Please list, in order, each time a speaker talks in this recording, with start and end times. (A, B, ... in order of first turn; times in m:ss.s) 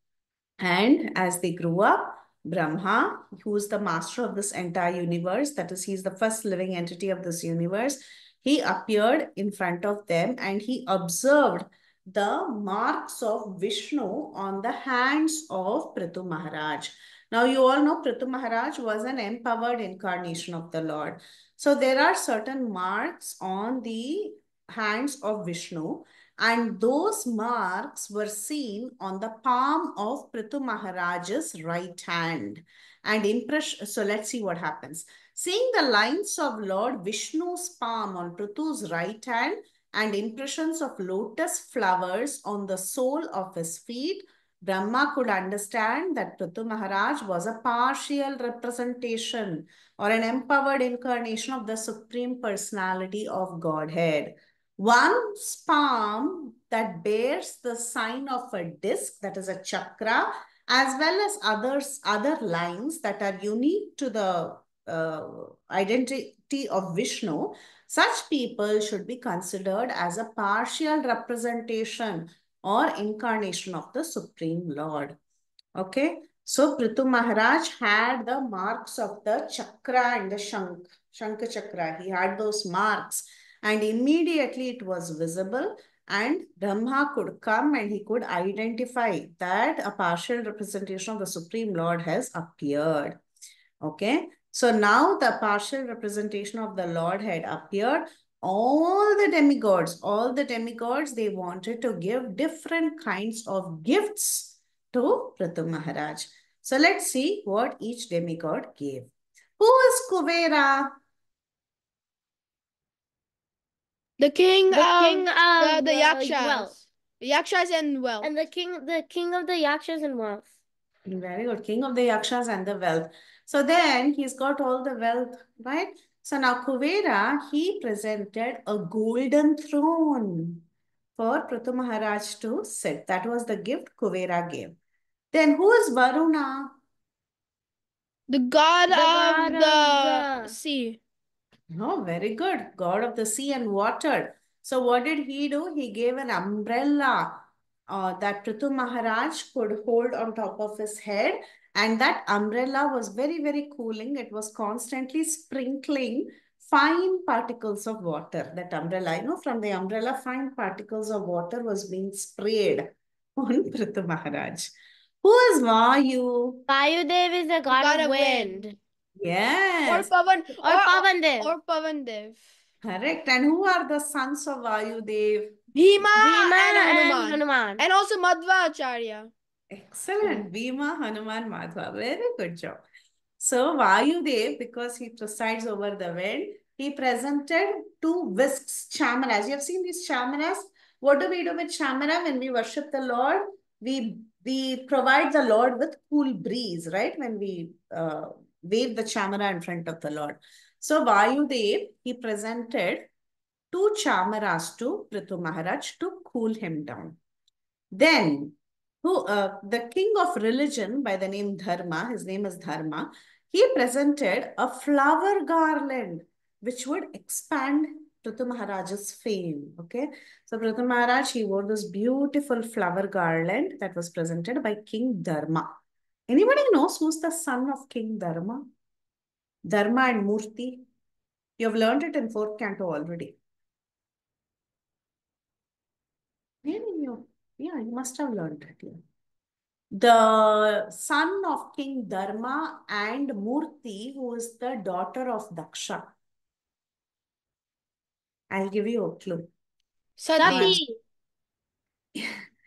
0:00.6-1:15.2 A
1:15.8-1:33.2 A
1:33.8-1:51.0 A
1:54.2-1:58.3 B
1:54.7-1:56.7 C
1:58.2-2:00.5 C
2:01.1-2:10.6 A
2:11.2-2:14.8 A
2:15.3-2:16.8 A
2:18.3-2:21.0 B
2:18.9-2:20.5 C
2:21.7-2:44.7 A
2:45.2-2:46.6 A
2:46.7-2:48.7 C
2:47.7-2:48.6 B
2:49.2-2:50.1 A
2:49.9-2:52.4 B
2:50.6-2:51.5 C
2:52.8-2:55.6 A
2:55.7-2:59.3 B
2:56.2-2:57.8 C
2:59.7-3:02.8 A
3:03.4-3:23.1 A
3:23.7-3:27.2 A
3:28.0-3:45.7 A
3:46.3-3:48.6 A
3:49.7-3:50.8 A
3:51.6-3:53.4 A
3:56.6-3:59.0 A
3:59.9-4:06.1 A
4:08.5-4:09.5 A
4:10.2-4:10.8 B
4:10.4-4:10.9 C
4:10.4-4:10.8 A